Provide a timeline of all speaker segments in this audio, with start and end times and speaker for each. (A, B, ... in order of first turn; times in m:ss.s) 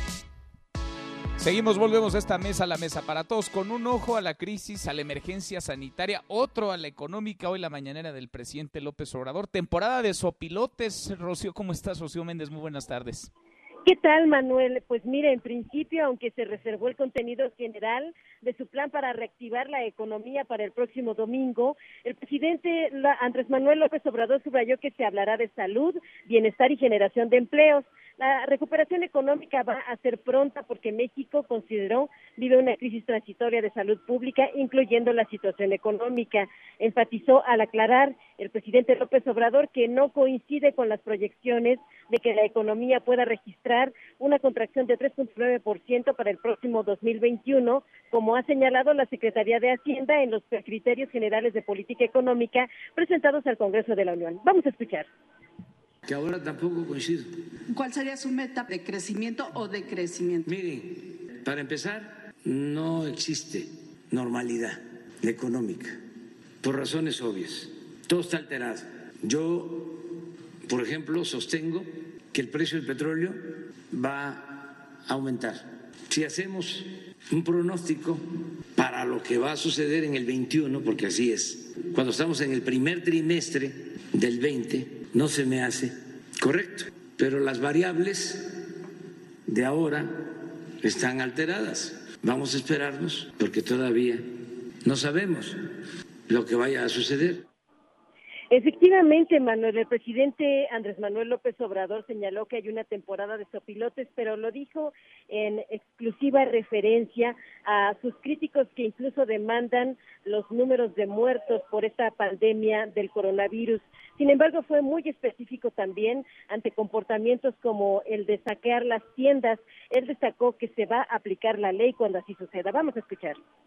0:01.4-0:13.3 A
0:13.9-0:55.1 B
0:56.1-0:57.3 C
0:57.7-1:00.5 D
1:00.5-1:06.0 C
1:06.6-1:10.1 C
1:10.7-1:28.7 C
1:29.5-1:34.3 C
1:34.8-1:35.6 C
1:36.3-1:37.4 C
1:38.5-2:03.4 B